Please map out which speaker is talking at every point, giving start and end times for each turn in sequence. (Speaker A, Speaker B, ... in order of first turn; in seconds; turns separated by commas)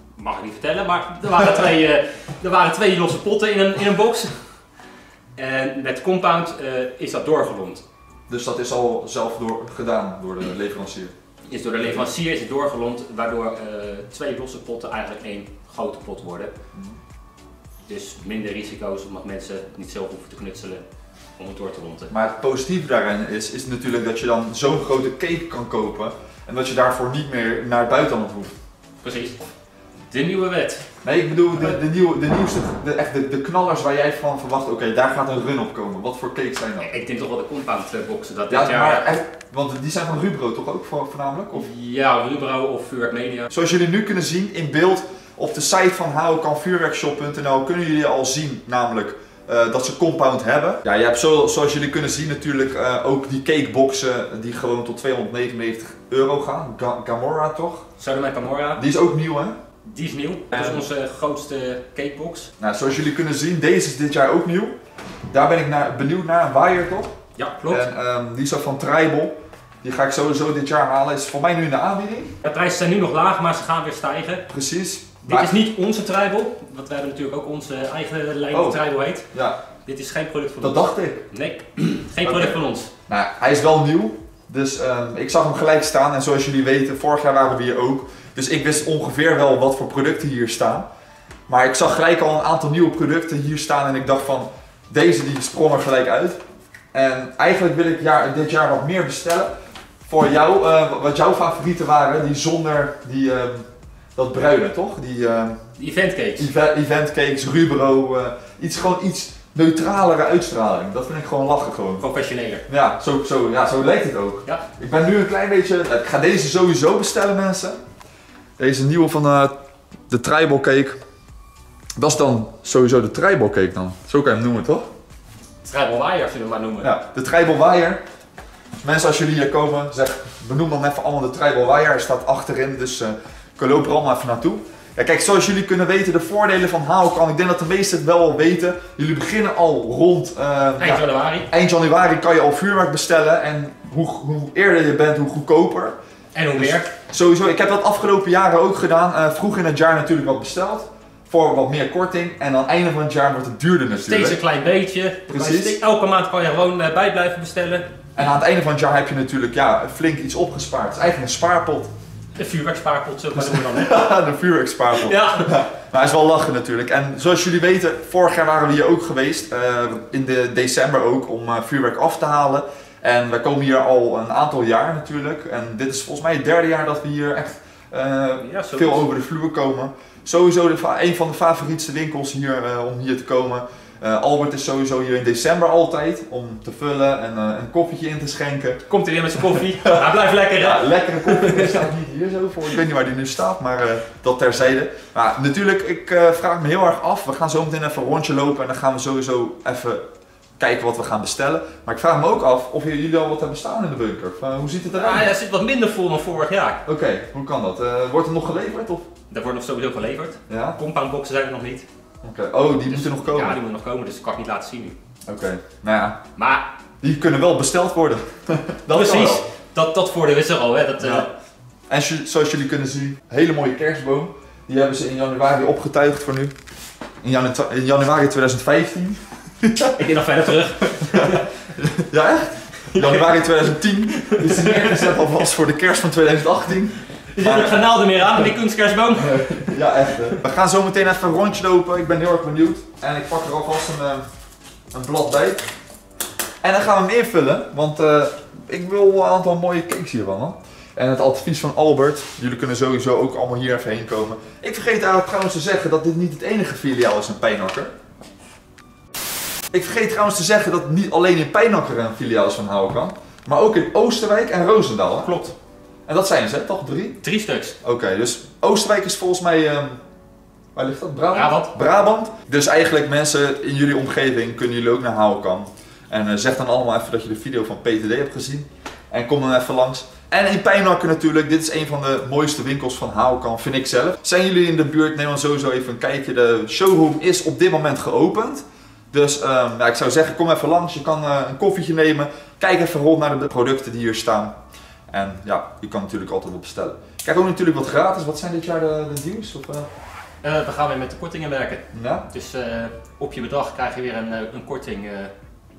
Speaker A: 0.1-4.4, Speaker A: 5.3-7.8, Speaker B: 8.3-11.1, Speaker A: 11.5-16.5, Speaker B: 16.7-17.0, Speaker A: 17.9-20.8, Speaker A: 21.4-22.1, Speaker B: 22.1-28.5, Speaker A: 29.0-29.4, Speaker A: 30.1-30.8, Speaker B: 31.0-37.0, Speaker A: 36.8-39.1, Speaker B: 38.5-41.7, Speaker A: 41.5-43.5, Speaker B: 43.5-57.9, Speaker A: 58.0-58.8, Speaker B: 58.8-59.6, Speaker A: 59.9-62.5, Speaker B: 60.5-60.9, Speaker B: 62.6-64.7, Speaker B: 65.3-67.2, Speaker A: 67.3-67.8, Speaker B: 67.7-72.3, Speaker A: 72.4-74.5, Speaker B: 74.5-75.6, Speaker A: 75.2-79.3, Speaker B: 78.5-79.6, Speaker A: 79.8-82.9, Speaker B: 80.6-81.2, Speaker B: 82.2-90.9, Speaker B: 91.5-96.4, Speaker B: 96.9-99.5, Speaker B: 100.0-105.6, Speaker A: 105.8-106.5, Speaker B: 106.4-112.0, Speaker A: 112.0-112.6, Speaker B: 112.7-117.8, Speaker B: 118.6-119.6, Speaker B: 120.1-121.0, Speaker B: 122.0-124.9, Speaker A: 125.6-126.9, Speaker B: 126.8-128.0, Speaker B: 128.8-146.0, Speaker A: 140.8-141.5, Speaker A: 146.3-146.9, Speaker B: 146.6-154.4, Speaker A: 153.9-157.9, Speaker B: 155.3-155.8, Speaker B: 158.2-161.9, Speaker A: 162.3-164.0, Speaker B: 163.3-188.8, Speaker A: 164.9-165.5, Speaker A: 178.4-179.1, Speaker A: 188.9-191.9, Speaker B: 189.5-190.1, Speaker B: 190.6-200.0, Speaker B: 200.6-205.3, Speaker A: 204.9-206.8, Speaker B: 206.8-209.1, Speaker A: 209.3-211.9, Speaker B: 210.5-210.8, Speaker B: 212.2-213.6, Speaker A: 212.8-214.9, Speaker B: 215.3-216.2, Speaker A: 216.3-216.7, Speaker B: 217.0-219.4, Speaker A: 218.9-221.3, Speaker B: 221.0-221.3, Speaker B: 221.9-226.5, Speaker B: 227.2-230.0, Speaker A: 229.9-231.5, Speaker B: 230.8-237.8, Speaker A: 232.9-233.4, Speaker A: 234.1-235.2, Speaker A: 237.3-239.8, Speaker B: 239.2-244.2, Speaker B: 244.9-245.6, Speaker B: 246.6-257.9, Speaker B: 259.7-265.3, Speaker A: 265.2-265.5, Speaker B: 266.1-267.2, Speaker A: 267.2-267.8, Speaker B: 267.8-270.0, Speaker B: 270.7-294.6, Speaker A: 271.3-271.7, Speaker B: 295.1-299.9, Speaker A: 300.4-305.3, Speaker B: 301.9-302.3